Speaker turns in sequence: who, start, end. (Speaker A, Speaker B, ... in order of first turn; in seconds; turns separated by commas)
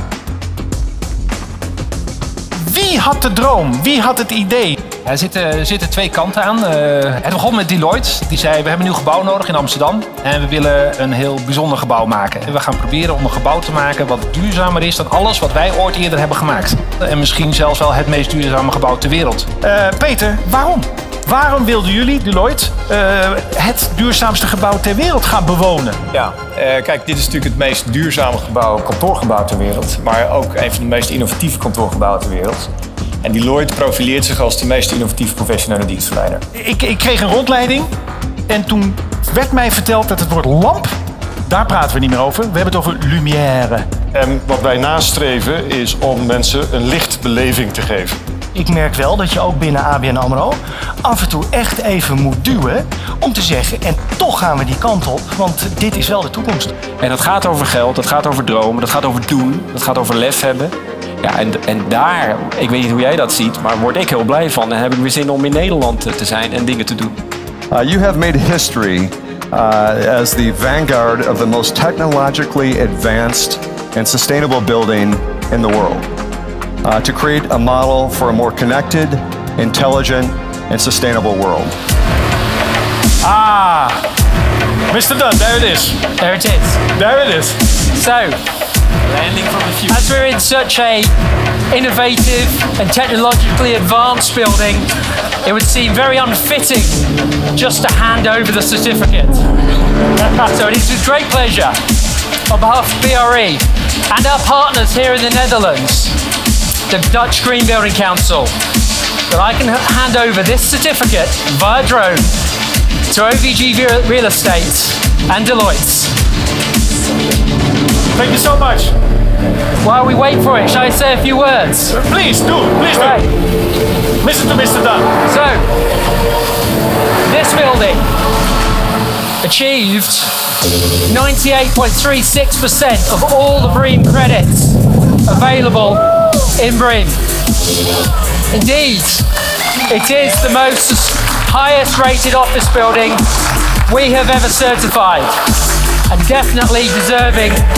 Speaker A: 2.6-4.8, Speaker B: 5.0-19.5, Speaker A: 19.6-26.0, Speaker C: 26.1-32.7, Speaker C: 33.2-36.4, Speaker A: 36.5-37.9, Speaker A: 38.5-40.9, Speaker A: 41.5-43.9, Speaker D: 44.1-48.2, Speaker E: 48.5-56.8, Speaker F: 57.0-67.2, Speaker G: 67.7-76.1, Speaker G: 76.8-81.7, Speaker A: 83.2-84.0, Speaker A: 84.9-86.0, Speaker H: 86.2-86.8, Speaker A: 86.9-87.6, Speaker H: 87.8-88.4, Speaker F: 89.1-89.8, Speaker H: 89.9-91.1, Speaker H: 91.7-94.9, Speaker H: 95.4-99.5, Speaker H: 100.1-101.8, Speaker H: 102.5-106.2, Speaker H: 106.9-108.5, Speaker H: 109.3-112.3, Speaker H: 113.1-116.1, Speaker A: 118.1-118.9, Speaker H: 119.8-122.0, Speaker A: 121.9-123.2, Speaker H: 122.9-123.3, Speaker A: 124.2-125.1, Speaker H: 125.2-125.7, Speaker H: 127.2-128.1, Speaker H: 129.4-130.3, Speaker H: 131.0-137.2, Speaker H: 138.5-139.3, Speaker H: 139.8-143.2, Speaker H: 143.8-145.4, Speaker H: 146.1-147.6